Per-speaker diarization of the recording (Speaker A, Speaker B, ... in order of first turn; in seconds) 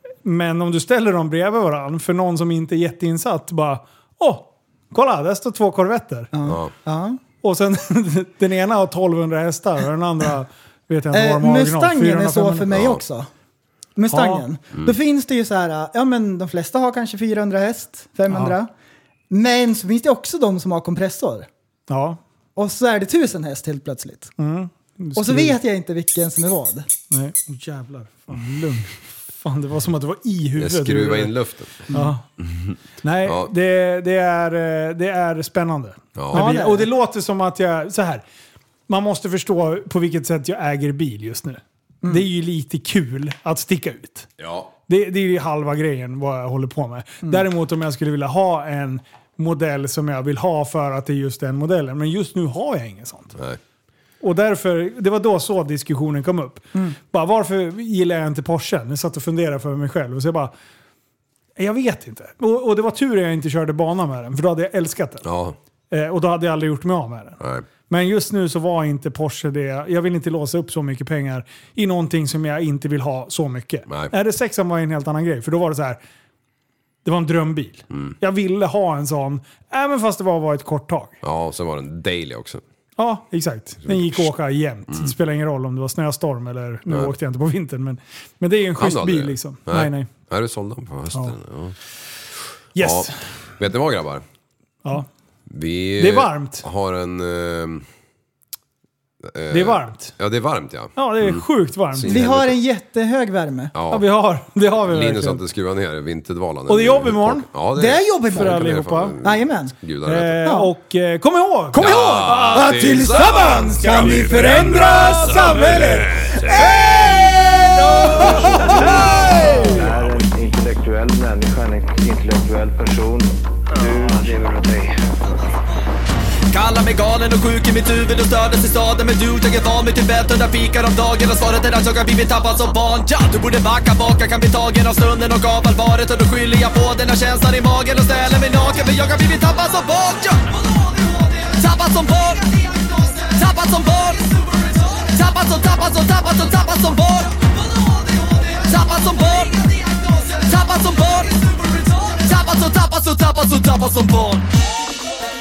Speaker A: 0.2-6.3, 7.4-12.7, 14.1-14.4, 18.3-18.6, 21.9-22.2, 24.4-25.6, 27.1-31.3, 31.9-32.2, 33.0-38.2, 38.9-44.3, 44.9-53.4, 54.2-60.5, 61.6-65.2, 65.9-76.0, 77.0-81.2, 83.0-90.1, 92.7-93.2, 96.0-96.7, 99.5-100.1, 101.0-102.3, 103.9-105.4, 106.7-107.5, 108.3-109.2, 110.0-117.0, 118.0-119.9
Speaker B: 6.3-7.2, 11.1-13.3, 14.0-18.7, 19.3-21.5, 22.6-24.3, 25.1-26.9, 36.3-36.9, 102.1-103.7, 107.8-108.6, 109.2-109.7, 110.4-110.7, 111.8-118.9
Speaker C: 6.5-6.7, 12.7-13.0, 30.6-33.5, 36.2-36.5, 44.4-44.7, 65.2-65.6, 67.4-67.7, 81.2-82.6, 83.8-84.3, 88.8-91.8, 92.8-94.2, 95.5-97.9, 99.2-102.5, 103.7-104.0, 104.9-110.5, 111.7-117.4
Speaker D: 118.0-125.0
Speaker E: 126.5-154.4